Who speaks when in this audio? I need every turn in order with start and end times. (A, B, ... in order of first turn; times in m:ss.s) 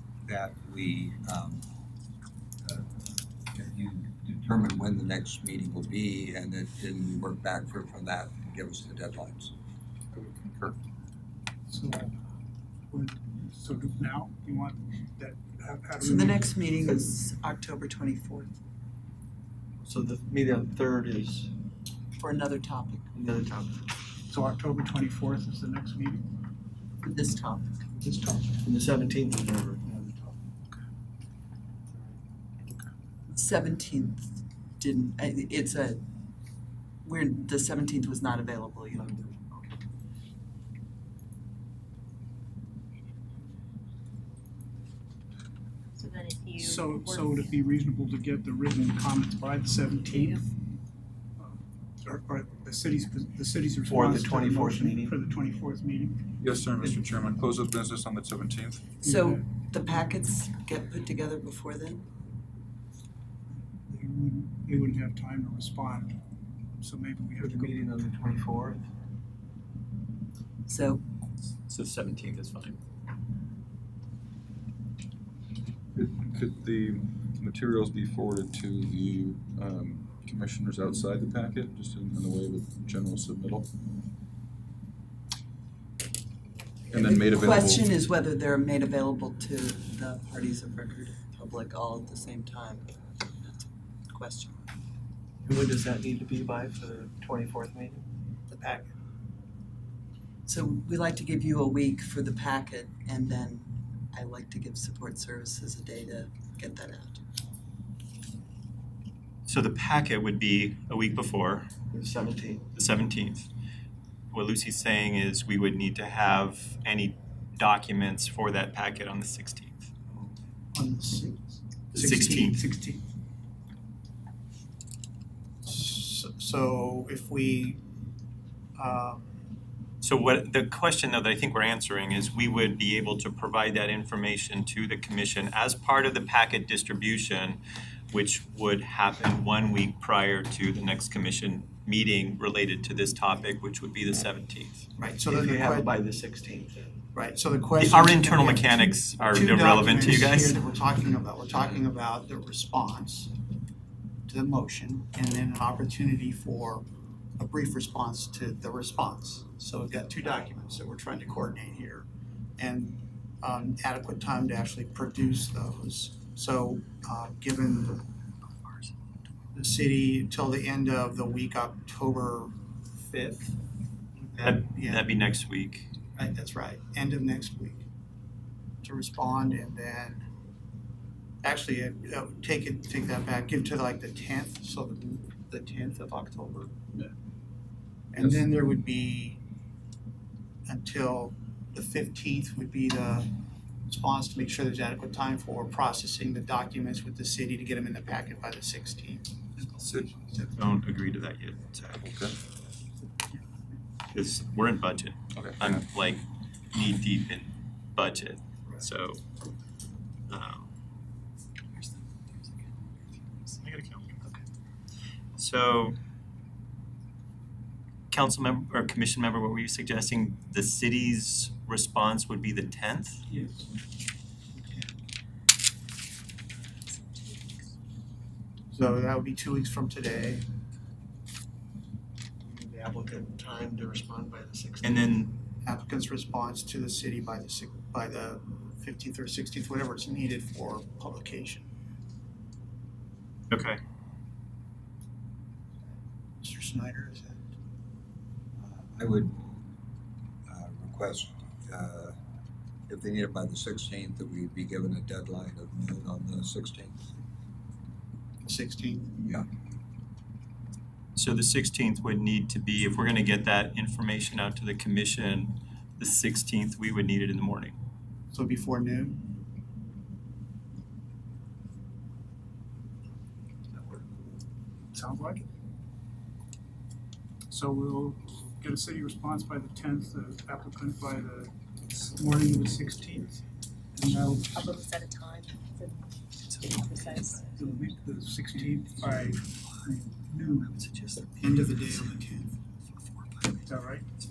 0:00.3-0:01.6 A
0:02.6-0:02.9 A
0:03.5-0:09.5 A
0:10.1-0:10.8 B
0:11.7-0:12.2 C
0:12.9-0:17.0 C
0:16.0-0:18.6 D
0:19.8-0:21.6 E
0:22.1-0:23.1 D
0:23.1-0:24.0 E
0:24.3-0:26.3 C
0:27.0-0:27.8 D
0:28.0-0:28.6 C
0:28.6-0:30.4 E
0:33.3-0:36.0 D
0:37.0-0:39.4 D
0:39.1-0:39.6 E
0:46.0-0:47.3 F
0:46.6-0:50.6 C
0:51.4-0:56.3 C
0:53.9-0:55.2 E
0:56.4-0:59.0 B
0:59.0-0:59.4 C
0:59.1-1:02.1 D
1:03.5-1:06.2 C
1:06.8-1:07.9 C
1:07.4-1:08.9 E
1:10.7-1:11.0 D
1:11.6-1:12.8 G
1:16.0-1:23.7 B
1:26.9-1:27.9 B
1:27.1-1:34.7 D
1:35.4-1:38.3 E
1:38.5-1:38.9 H
1:40.5-1:47.2 D
1:49.5-1:51.7 G
1:51.9-1:52.7 E
1:52.7-1:53.5 G
1:54.3-1:59.9 G
2:00.7-2:03.0 H
2:01.9-2:02.6 G
2:05.6-2:07.8 H
2:08.8-2:09.3 H
2:10.0-2:17.6 G
2:18.1-2:24.9 G
2:25.0-2:25.9 H
2:25.3-2:27.0 E
2:27.1-2:33.3 H
2:27.8-2:30.6 G
2:34.3-2:36.9 H
2:37.4-2:42.1 H
2:42.6-2:48.1 H
2:49.5-2:53.6 H
2:54.2-2:55.1 H
2:54.4-2:55.9 G
2:56.2-2:57.9 H
2:58.8-3:00.2 H
3:01.4-3:06.8 H
3:08.1-3:09.4 H
3:10.7-3:19.4 H
3:19.6-3:20.0 C
3:19.9-3:20.1 B
3:20.6-3:22.0 G
3:22.0-3:22.4 B
3:24.1-3:29.2 G
3:25.4-3:25.9 B
3:30.3-3:30.7 G
3:33.6-3:34.3 G
3:35.4-3:36.0 G
3:38.1-3:43.2 G
3:43.3-3:43.7 C
3:44.6-3:44.9 H
3:48.7-3:50.4 H
3:52.4-3:55.2 E
3:54.8-3:55.4 G
3:55.6-4:01.7 H
4:03.5-4:03.8 G
4:06.4-4:07.4 H
4:08.6-4:09.4 A
4:10.5-4:12.2 A
4:12.9-4:17.0 A
4:18.4-4:19.2 H
4:21.2-4:27.8 G
4:28.3-4:29.3 H
4:34.9-4:35.4 C
4:37.5-4:43.4 C
4:44.0-4:44.8 C
4:44.8-4:47.4 F
4:47.5-4:50.8 C
4:48.7-4:49.3 H
4:50.8-4:51.4 E
4:51.4-4:52.6 H
4:53.6-4:54.1 C